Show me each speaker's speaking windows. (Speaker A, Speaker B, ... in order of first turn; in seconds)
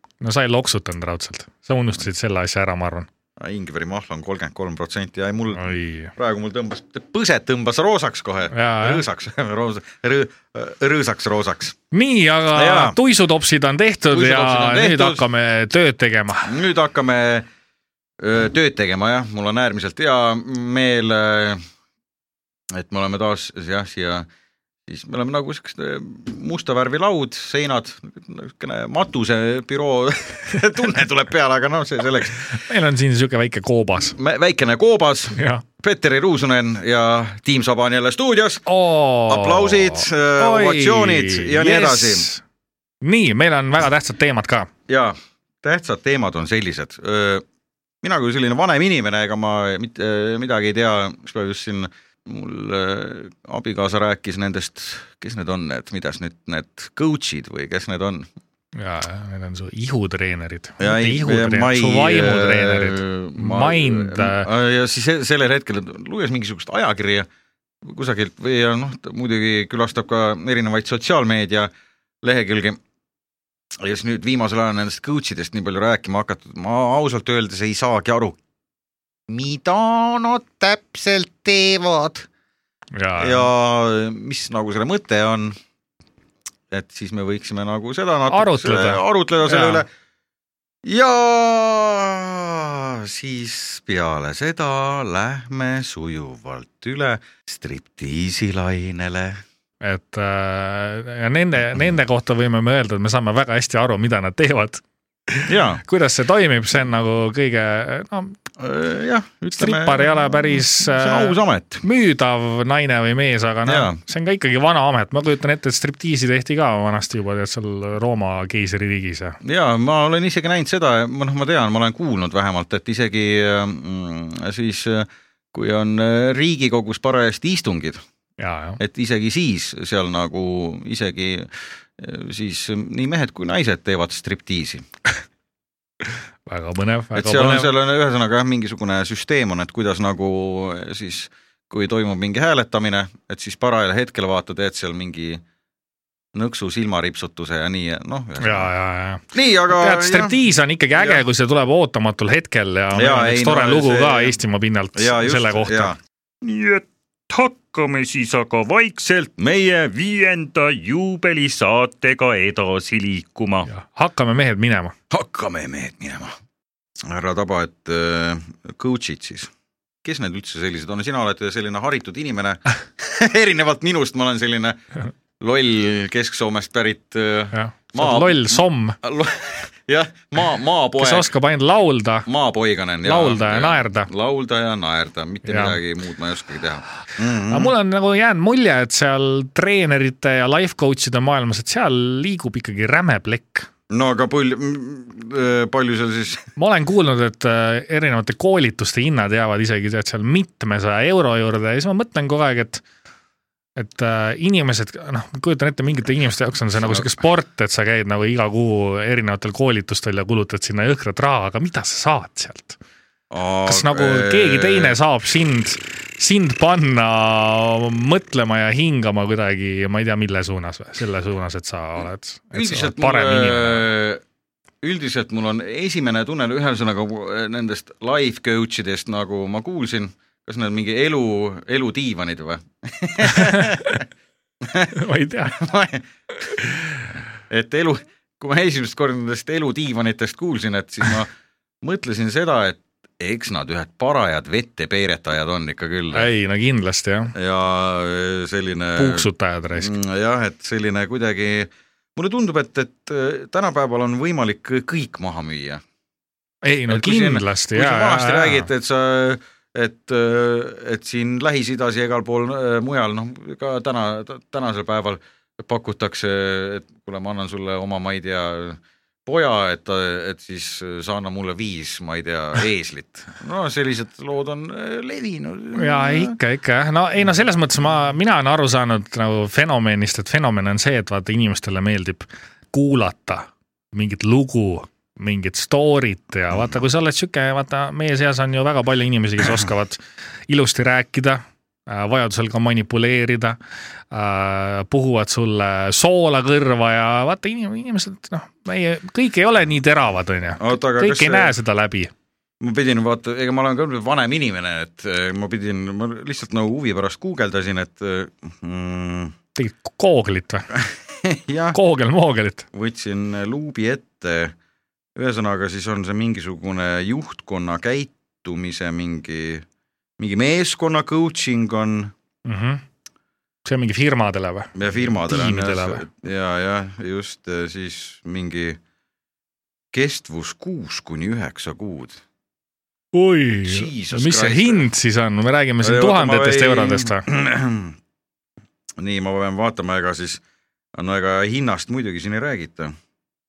Speaker A: 0.2-3.1, 5.5-6.1, 8.5-9.0, 11.9-16.5, 32.5-34.2, 35.3-35.6, 38.6-42.4, 43.0-44.7, 58.8-64.5, 83.0-83.5, 88.3-89.8, 99.8-108.4, 109.5-119.4, 128.4-128.8, 136.5-137.7, 148.4-155.9, 163.7-164.9, 177.5-179.0, 181.0-182.3, 183.0-184.1, 185.4-185.8, 187.5-193.7, 196.6-202.8, 203.8-212.8, 213.7-223.9, 233.3-233.7, 234.9-235.6, 246.1-247.3, 248.9-249.9, 256.6-258.7, 275.7-293.6, 294.1-302.1, 309.6-310.7, 311.7-312.6, 322.4-322.8, 323.6-326.0, 333.1-337.2
Speaker B: 3.4-11.8, 12.5-13.0, 14.1-15.2, 16.4-17.5, 18.2-21.6, 22.7-24.3, 24.9-32.6, 34.2-38.7, 39.2-42.3, 44.9-47.4, 48.0-58.3, 60.8-67.3, 67.8-71.7, 72.2-72.8, 73.7-78.4, 79.3-82.3, 83.2-85.5, 86.7-89.9, 90.8-99.4, 105.5-105.8, 108.6-111.8, 113.7-114.0, 119.4-128.0, 128.8-134.8, 137.1-145.4, 146.3-148.7, 149.3-150.4, 151.0-151.2, 152.9-154.4, 154.9-156.0, 165.1-166.3, 167.0-169.5, 170.0-174.8, 175.4-181.3, 182.2-187.7, 193.9-196.5, 206.8-207.1, 213.3-215.0, 222.5-224.2, 224.8-234.0, 234.6-234.9, 235.5-236.1, 237.5-241.3, 241.8-246.3, 247.3-255.8, 256.9-276.4, 300.6-301.5, 302.6-309.3, 310.7-311.8, 312.7-314.6, 315.1-319.6, 320.2-322.1, 324.7-328.8, 329.9-332.2, 333.6-334.8, 335.8-338.0, 339.0-340.4, 340.9-342.9
Speaker C: 156.4-163.7